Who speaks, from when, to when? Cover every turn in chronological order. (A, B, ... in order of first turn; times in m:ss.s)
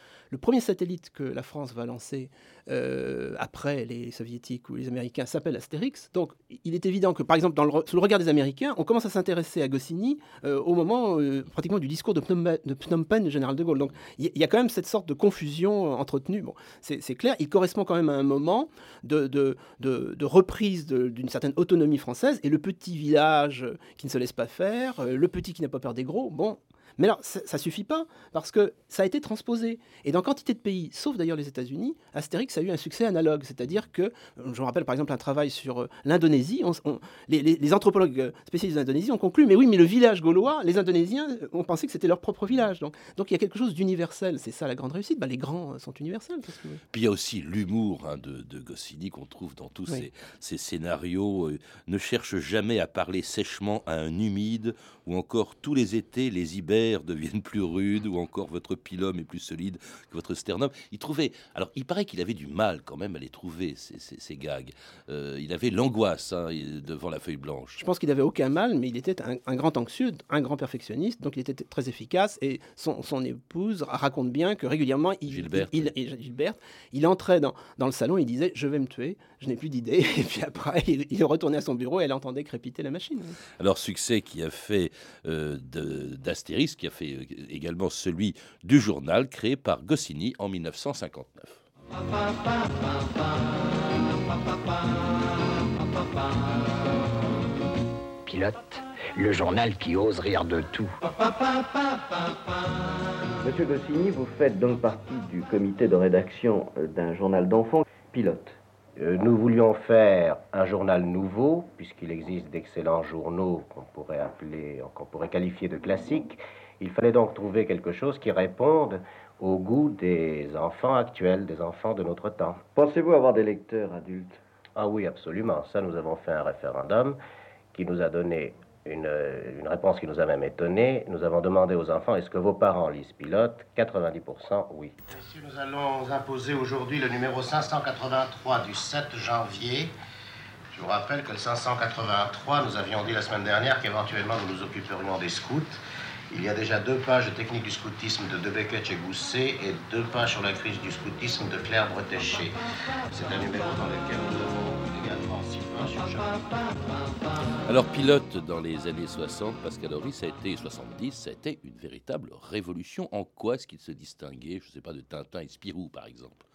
0:00.3-0:46.8 A
0:46.9-1:07.8 B
1:07.8-1:23.4 A
1:15.3-1:15.9 B
1:23.6-1:31.6 B
1:38.2-1:41.0 C
1:43.4-1:48.6 D
1:49.0-2:02.6 E
2:02.8-2:04.4 D
2:04.8-2:07.2 E
2:07.7-2:19.9 E
2:20.7-2:25.8 E
2:26.3-2:32.5 E
2:33.1-2:36.4 E
2:37.7-2:46.4 B